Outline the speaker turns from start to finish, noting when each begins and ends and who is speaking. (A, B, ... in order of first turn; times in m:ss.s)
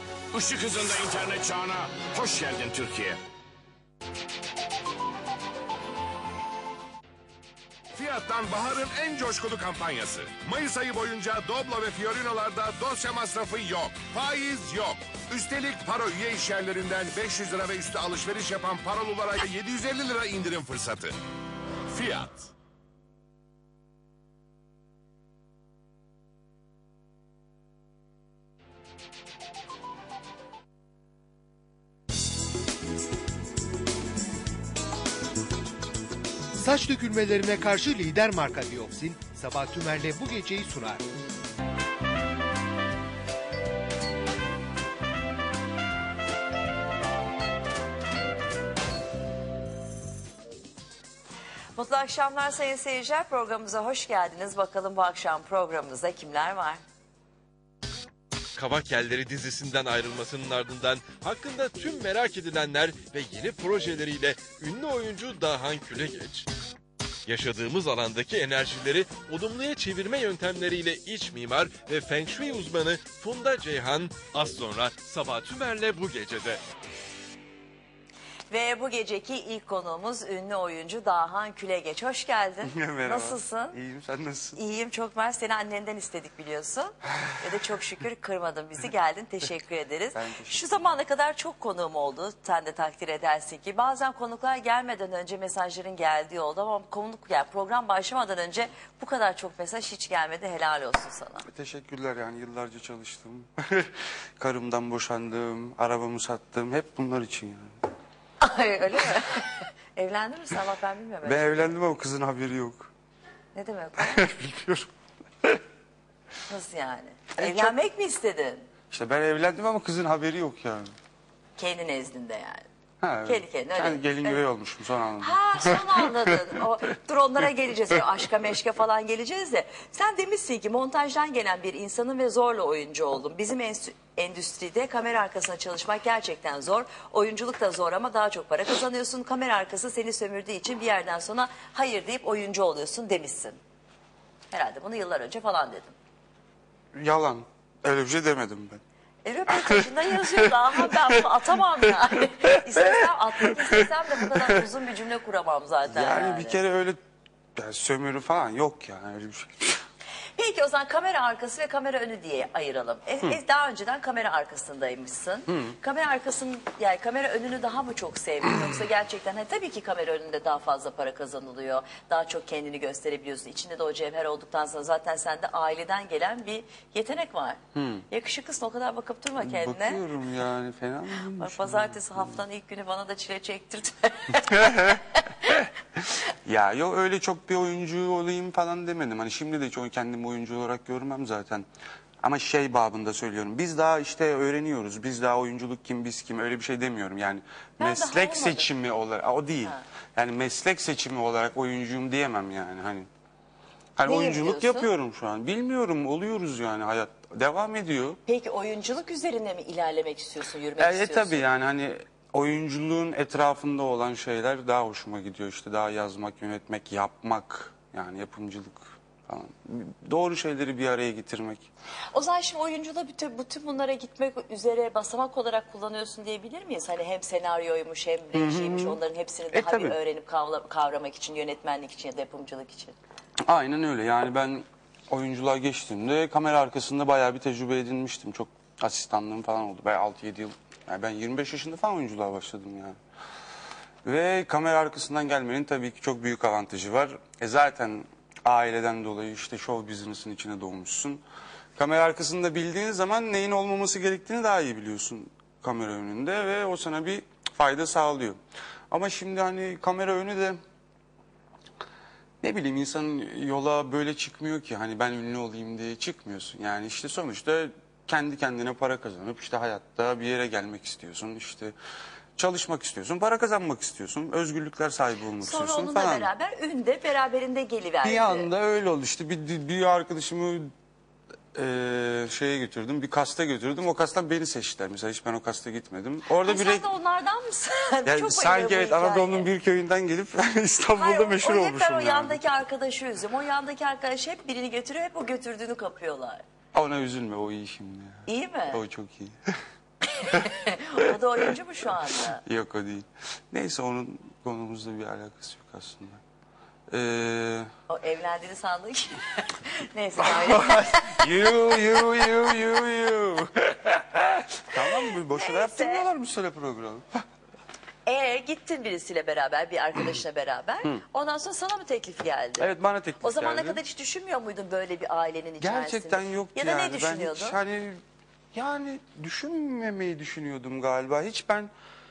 0:00.3-0:03.2 A
0:07.9-0:21.2 B
0:21.9-0:22.5 B
0:36.6-0:41.1 C
0:51.8-0:56.8 D
0:58.6-1:06.5 E
1:07.3-1:16.6 E
1:18.5-1:23.8 D
1:22.6-1:24.6 F
1:24.6-1:41.5 D
1:30.1-1:31.0 F
1:41.5-1:47.7 F
1:48.4-1:51.8 D
1:51.2-1:52.9 F
1:53.5-1:54.3 D
1:54.0-1:54.9 F
1:56.5-1:58.7 D
1:57.4-1:57.8 F
1:58.9-2:00.9 F
2:01.6-2:02.7 D
2:03.0-2:06.1 F
2:03.3-2:04.4 D
2:05.2-2:23.6 D
2:24.5-2:26.0 D
2:26.9-2:28.8 F
2:29.2-2:36.6 D
2:29.5-2:29.9 F
2:30.4-2:30.9 F
2:33.4-2:34.6 F
2:35.9-2:37.0 F
2:37.6-2:39.8 F
2:40.4-3:00.0 D
2:45.5-2:45.8 F
2:57.8-2:58.0 F
2:59.4-3:02.4 F
3:01.4-3:04.9 D
3:04.3-3:05.7 F
3:06.4-3:11.7 F
3:12.2-3:23.1 F
3:17.8-3:18.7 D
3:24.0-3:28.2 F
3:24.1-3:24.9 D
3:28.3-3:31.4 D
3:30.8-3:41.7 F
3:42.1-3:53.0 D
3:48.3-3:49.0 F
3:49.5-3:50.0 F
3:53.5-4:03.0 F
4:04.0-4:11.2 F
4:11.8-4:18.4 F
4:18.9-4:20.6 F
4:22.4-4:31.8 F
4:32.4-4:36.3 F
4:35.4-4:38.5 D
4:38.0-4:40.7 F
4:41.6-4:46.9 F
4:46.3-4:49.5 D
4:48.1-4:52.4 F
4:51.0-4:56.4 D
4:56.7-4:59.4 F
4:58.3-4:58.8 D
5:00.2-5:02.4 D
5:02.4-5:06.2 F
5:06.9-5:07.7 F
5:07.9-5:11.3 D
5:10.2-5:17.1 F
5:15.3-5:16.1 D
5:18.0-5:22.7 D
5:22.6-5:23.8 F
5:23.2-5:27.6 D
5:25.6-5:28.0 F
5:28.5-5:31.7 F